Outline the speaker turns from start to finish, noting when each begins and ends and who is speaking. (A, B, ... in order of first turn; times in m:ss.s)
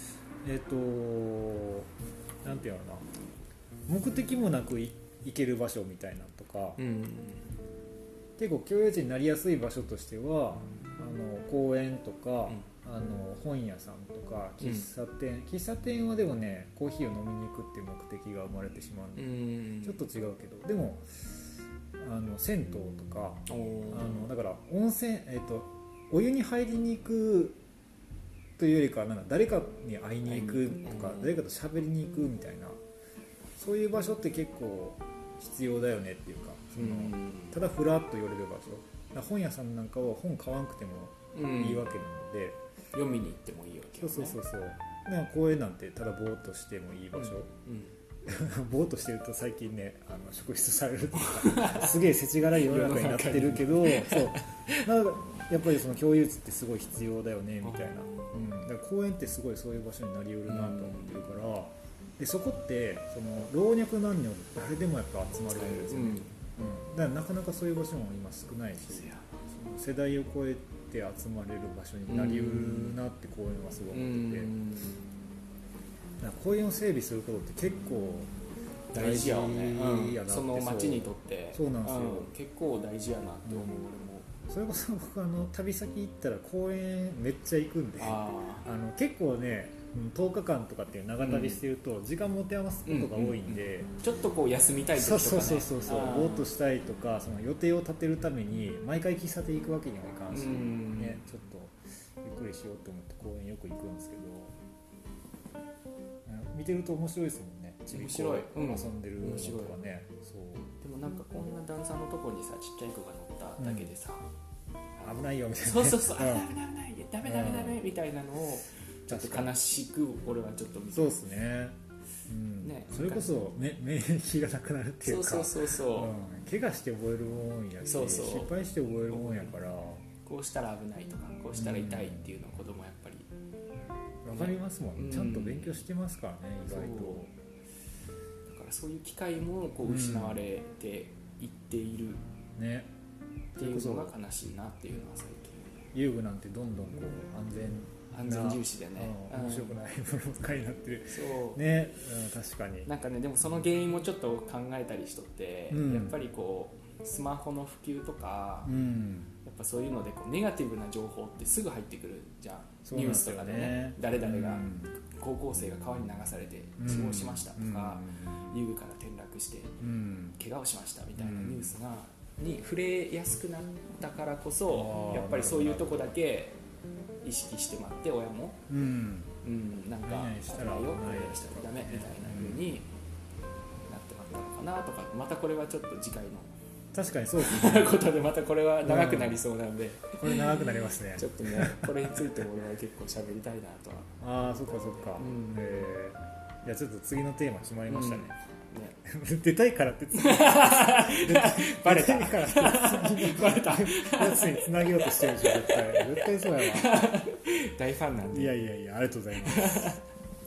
0:00.4-0:01.9 A
0:02.4-0:03.1 A
0:03.9-0:06.8 A
0:06.8-0:07.5 B
0:08.4-0:27.6 A
0:14.6-0:14.9 B
0:19.2-0:20.0 B
0:23.5-0:24.2 B
0:28.6-0:32.8 A
0:30.2-0:31.3 B
0:33.6-0:42.6 A
0:36.8-0:37.6 B
0:41.3-0:41.9 B
0:42.9-0:44.4 B
0:44.0-0:47.5 A
0:47.2-0:47.9 B
0:48.2-1:14.5 A
0:51.2-0:54.9 B
0:57.6-0:58.5 B
1:00.5-1:01.3 B
1:05.5-1:06.4 B
1:08.9-1:09.7 B
1:12.1-1:13.0 B
1:13.9-1:15.0 B
1:16.2-1:18.3 A
1:18.9-1:22.3 A
1:18.9-1:24.3 B
1:23.5-1:23.7 A
1:24.5-1:33.9 A
1:28.0-1:28.7 B
1:31.2-1:31.6 B
1:32.9-1:36.5 B
1:34.9-1:44.6 A
1:40.3-1:41.2 B
1:46.2-1:50.7 A
1:47.9-1:49.8 B
1:50.8-1:54.3 B
1:53.6-1:53.9 A
1:55.0-1:56.5 A
1:55.6-2:01.2 B
1:57.2-1:57.8 A
1:59.1-1:59.5 A
2:00.9-2:01.8 A
2:02.3-2:10.0 A
2:02.6-2:03.4 B
2:05.0-2:06.1 B
2:07.8-2:08.5 B
2:09.1-2:09.6 B
2:10.2-2:13.3 B
2:11.6-2:12.3 A
2:14.2-2:17.3 A
2:14.3-2:15.8 B
2:16.6-2:17.3 B
2:18.5-2:22.2 B
2:19.8-2:20.4 A
2:22.6-2:22.9 A
2:23.6-2:25.9 B
2:23.6-2:24.1 A
2:25.9-2:32.9 A
2:28.1-2:29.8 B
2:31.1-2:31.6 B
2:32.8-2:38.7 B
2:35.7-2:36.2 A
2:38.6-2:39.3 A
2:39.4-2:49.8 B
2:42.9-2:44.9 A
2:46.8-2:48.6 A
2:49.8-2:50.4 A
2:50.4-2:56.6 B
2:51.2-2:51.7 A
2:54.7-2:56.1 A
2:57.2-2:58.6 B
2:58.7-2:59.4 A
2:59.4-3:02.9 B
3:00.0-3:02.7 A
3:03.9-3:06.5 B
3:06.9-3:08.0 A
3:07.4-3:15.9 B
3:08.8-3:09.4 A
3:10.2-3:12.4 A
3:14.2-3:18.4 A
3:17.9-3:19.0 B
3:19.0-3:27.1 A
3:20.1-3:28.6 B
3:28.3-3:30.0 A
3:29.4-3:30.0 B